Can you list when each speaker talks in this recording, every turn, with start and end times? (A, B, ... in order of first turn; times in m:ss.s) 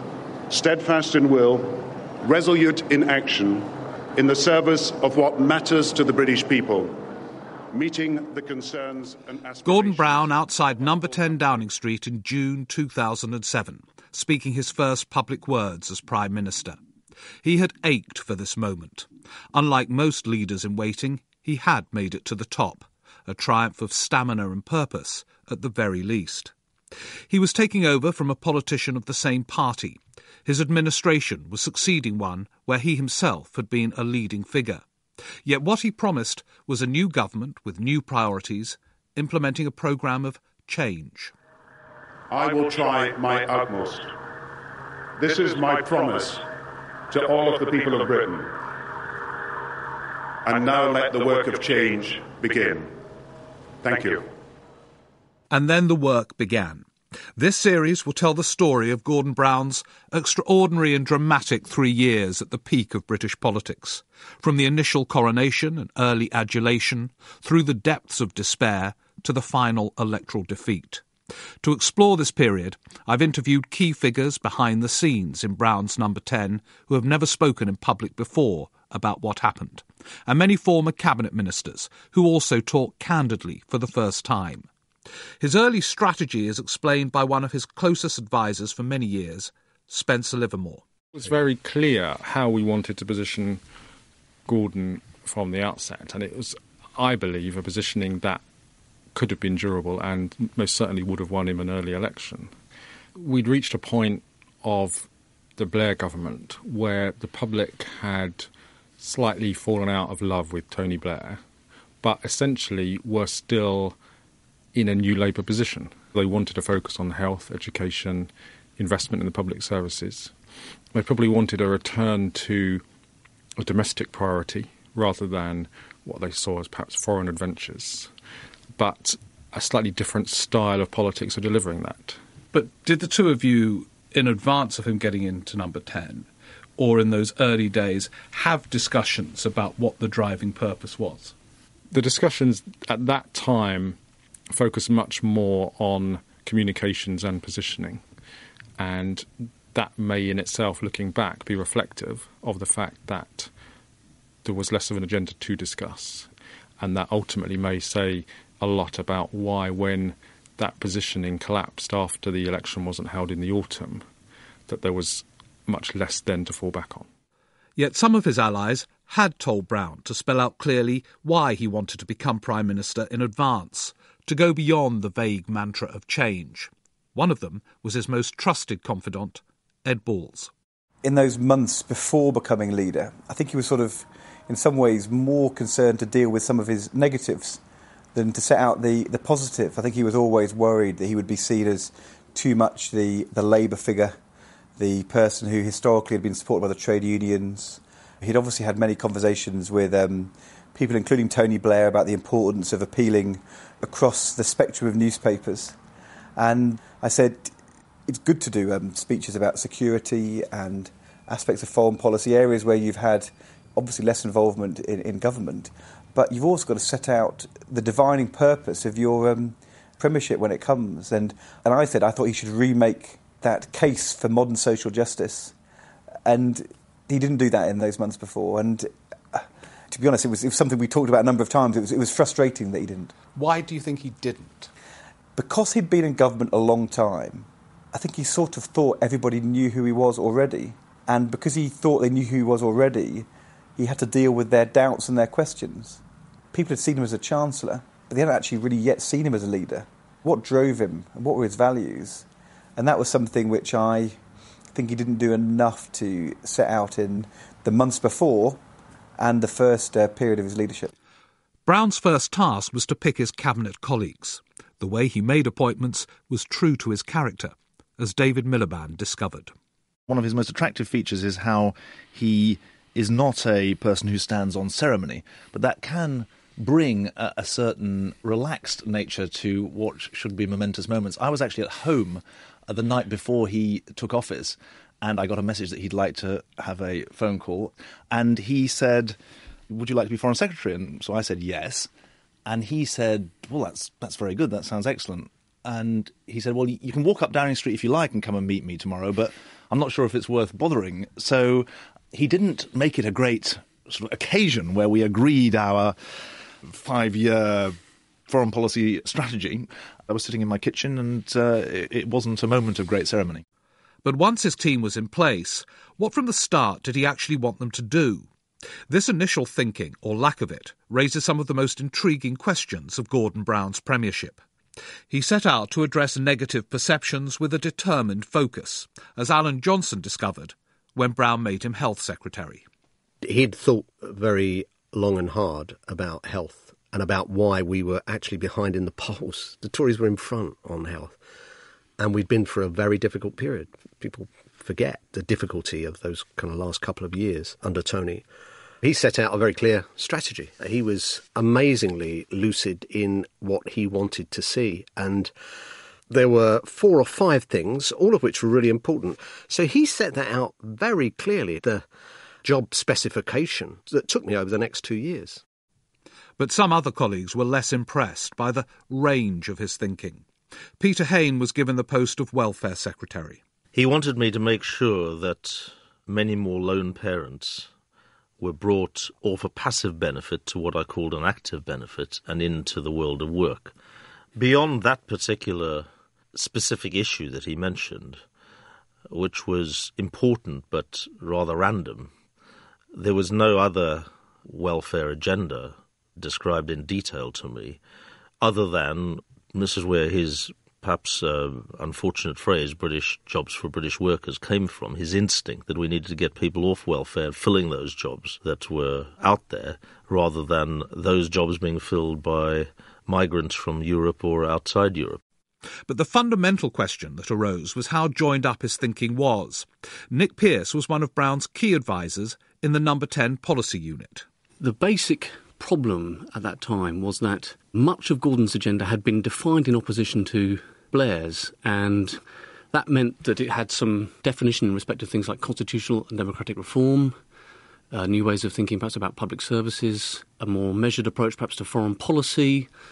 0:00.5-0:06.9 A
0:07.7-0:10.3 A
0:09.6-0:16.8 B
0:17.4-0:26.5 B
0:27.3-0:34.8 B
0:35.4-0:41.3 B
0:42.3-0:44.1 A
0:45.2-0:46.5 A
0:47.1-0:48.5 A
0:50.4-0:52.9 A
0:53.8-0:54.3 A
0:55.5-0:56.8 B
0:57.4-1:11.0 B
1:11.6-1:24.7 B
1:25.4-1:30.8 B
1:31.1-1:33.6 C
1:34.5-1:38.4 C
1:39.1-1:42.5 C
1:43.2-1:51.4 C
1:52.0-1:54.0 C
1:54.7-2:00.3 C
2:00.9-2:02.8 C
2:03.6-2:08.1 C
2:08.8-2:12.2 C
2:12.5-2:21.3 B
2:21.9-2:24.0 C
2:24.5-2:28.0 C
2:28.8-2:33.5 C
2:34.4-2:36.3 C
2:36.8-2:44.0 C
2:44.7-2:47.1 C
2:47.8-3:00.5 B
3:01.0-3:07.6 D
3:08.1-3:14.2 D
3:14.8-3:25.8 D
3:26.4-3:27.5 D
3:28.1-3:45.5 D
3:46.2-3:53.1 D
3:53.3-3:54.7 B
3:55.4-4:06.0 D
4:06.5-4:12.2 D
4:12.8-4:14.2 D
4:14.7-4:18.6 D
4:19.2-4:20.9 D
4:21.6-4:29.5 B
4:30.1-4:49.2 E
4:49.7-4:51.9 E
4:52.4-5:06.0 E
5:06.6-5:07.7 E
5:08.3-5:13.4 E
5:14.0-5:18.3 B
5:18.9-5:24.4 B
5:25.1-5:32.6 B
5:33.2-5:41.2 F
5:42.0-5:48.2 F
5:48.8-5:55.3 F
5:56.1-6:01.8 F
6:02.4-6:05.4 F
6:06.4-6:10.2 B
6:10.8-6:13.4 B
6:13.7-6:17.7 G
6:18.4-6:23.7 G
6:24.4-6:28.2 G
6:29.1-6:32.1 G
6:32.9-6:37.8 G
6:38.4-6:55.2 G
6:55.9-7:04.2 B
7:04.6-7:17.2 H
7:17.9-7:22.7 H